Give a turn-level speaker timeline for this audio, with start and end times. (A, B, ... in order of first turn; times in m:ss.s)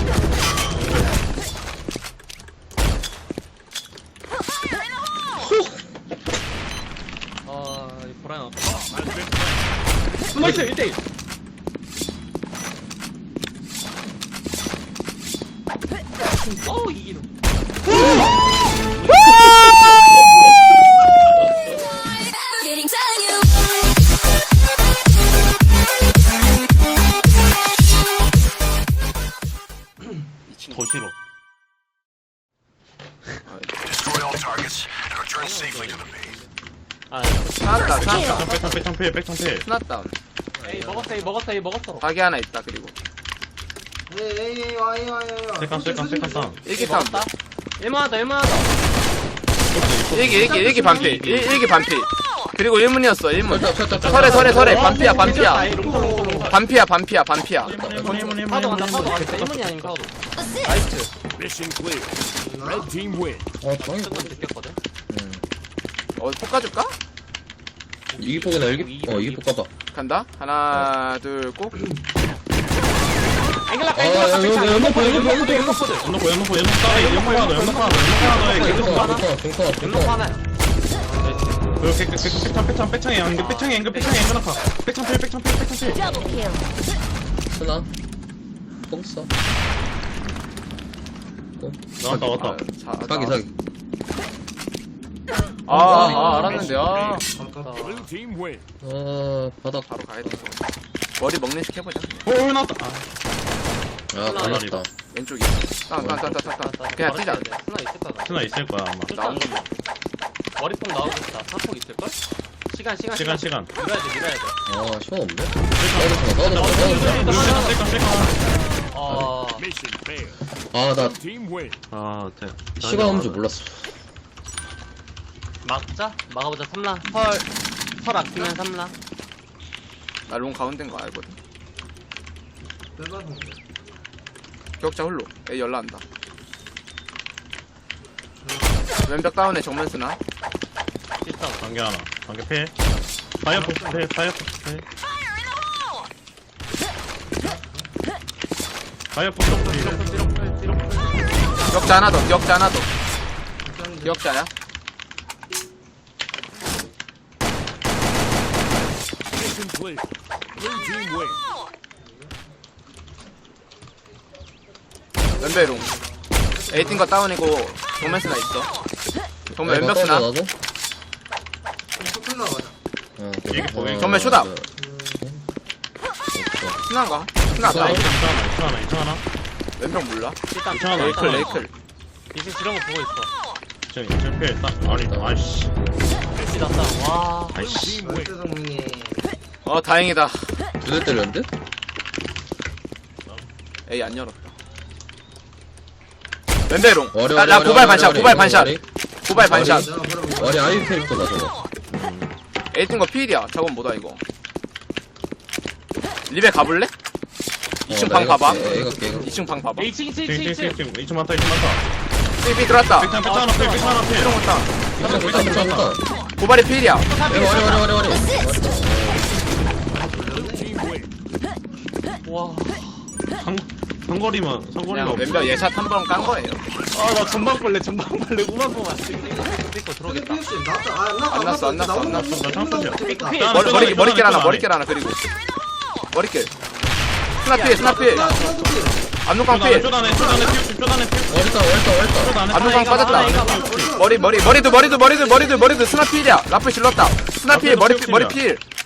0:00.7-0:01.1 A
0:05.4-0:05.7 B
0:07.4-0:09.1 C
0:10.3-0:10.6 D
0:10.3-0:11.0 C
0:16.6-0:17.3 C
0:30.5-0:30.9 E
0:30.7-0:31.1 A
0:33.5-0:34.1 E
0:35.2-0:36.5 C
0:37.1-0:38.5 C
0:37.6-0:38.8 E
0:37.9-0:39.6 A
0:39.6-0:40.1 E
0:40.6-0:42.1 C
0:42.0-0:42.9 E
0:44.1-0:46.6 D
0:45.6-0:46.6 A
0:46.6-0:47.3 E
0:46.7-0:48.7 C
0:49.7-0:51.6 A
0:50.1-0:55.8 E
0:50.3-0:51.2 C
0:53.4-0:54.8 B
0:54.0-0:54.6 A
0:54.0-0:56.6 C
0:54.3-0:56.6 D
0:56.4-0:58.4 E
0:57.6-1:00.0 A
0:57.6-0:58.3 B
0:58.3-1:01.1 C
1:02.4-1:03.1 D
1:03.6-1:04.5 B
1:03.8-1:04.8 C
1:05.1-1:05.4 B
1:06.2-1:06.9 E
1:08.1-1:09.4 C
1:08.2-1:09.7 B
1:09.9-1:11.8 E
1:13.6-1:16.1 C
1:13.9-1:15.9 B
1:16.0-1:19.2 A
1:16.8-1:20.4 C
1:18.3-1:20.2 B
1:20.9-1:21.8 D
1:21.2-1:21.9 C
1:21.8-1:26.2 A
1:22.2-1:22.5 B
1:23.2-1:24.4 C
1:27.5-1:27.9 B
1:28.9-1:29.3 B
1:31.6-1:32.4 B
1:32.0-1:32.6 A
1:32.3-1:33.4 E
1:33.0-1:33.5 B
1:35.6-1:37.2 E
1:35.8-1:38.1 C
1:35.8-1:37.7 D
1:38.8-1:39.9 B
1:39.9-1:40.6 E
1:41.2-1:42.3 E
1:42.2-1:43.1 A
1:44.1-1:44.9 B
1:44.2-1:44.7 C
1:44.3-1:44.8 A
1:45.1-1:47.4 E
1:46.0-1:46.4 B
1:46.4-1:48.5 C
1:48.2-1:49.1 A
1:49.1-1:49.7 C
1:49.1-1:49.7 E
1:50.6-1:52.2 C
1:52.7-1:54.6 C
1:53.1-1:53.7 A
1:54.7-1:57.6 B
1:55.8-1:58.3 A
1:56.4-1:57.9 C
1:58.9-1:59.7 C
1:59.1-1:59.3 B
2:00.6-2:01.2 B
2:01.9-2:03.4 A
2:02.8-2:03.9 B
2:05.6-2:07.4 C
2:08.0-2:08.9 C
2:10.3-2:11.4 E
2:12.9-2:13.6 D
2:14.8-2:16.0 E
2:18.4-2:18.9 D
2:19.0-2:20.2 E
2:21.2-2:21.6 C
2:21.6-2:22.7 A
2:23.4-2:24.8 A
2:23.5-2:24.0 D
2:27.4-2:27.9 D
2:29.1-2:30.2 A
2:29.4-2:32.0 C
2:31.7-2:32.9 E
2:33.6-2:34.2 D
2:34.0-2:34.5 E
2:42.0-2:42.4 D
2:45.2-2:47.2 D
2:45.4-2:46.0 E
2:46.7-2:48.7 E
2:49.5-2:50.5 B
2:49.5-2:50.3 E
2:52.0-2:52.8 D
2:53.2-2:55.4 B
2:53.5-2:54.2 A
2:54.0-2:54.5 E
2:54.8-2:55.2 D
2:56.3-2:56.8 B
2:56.8-2:58.2 E
2:57.5-2:58.1 B
2:57.6-2:59.2 A
2:59.8-3:00.4 E
3:00.5-3:01.6 C
3:00.7-3:01.6 A
3:00.9-3:01.7 E
3:02.3-3:03.3 C
3:03.9-3:05.7 A
3:04.9-3:05.4 B
3:06.4-3:07.6 C
3:07.5-3:08.1 A
3:08.0-3:09.3 D
3:09.6-3:10.5 E
3:10.8-3:11.5 B
3:13.9-3:14.5 E
3:16.7-3:19.9 E
3:17.1-3:18.8 B
3:19.3-3:21.3 D
3:19.4-3:21.6 B
3:21.9-3:22.3 A
3:22.7-3:24.2 E
3:26.3-3:26.9 E
3:27.9-3:29.9 E
3:27.9-3:29.3 B
3:28.3-3:29.6 D
3:29.7-3:30.8 C
3:30.2-3:31.8 A
3:32.4-3:33.2 E
3:32.9-3:36.0 A
3:33.2-3:34.3 C
3:34.1-3:35.7 E
3:35.0-3:36.0 B
3:36.4-3:37.1 E
3:37.0-3:37.9 C
3:37.3-3:39.4 B
3:39.8-3:40.8 D
3:42.2-3:43.1 C
3:43.3-3:45.7 A
3:44.9-3:46.6 E
3:46.9-3:50.4 C
3:49.1-3:53.5 D
3:51.3-3:52.3 E
3:52.1-3:54.7 A
3:53.0-3:54.0 C
3:53.4-3:55.2 E
3:56.1-3:56.5 E
3:56.5-3:57.1 D
3:57.4-3:59.9 E
3:57.5-3:58.4 C
3:57.7-3:59.0 D
3:59.5-4:04.0 A
3:59.7-4:00.6 D
4:01.3-4:02.4 B
4:02.5-4:08.6 E
4:02.5-4:03.9 C
4:03.2-4:06.2 D
4:07.5-4:08.4 A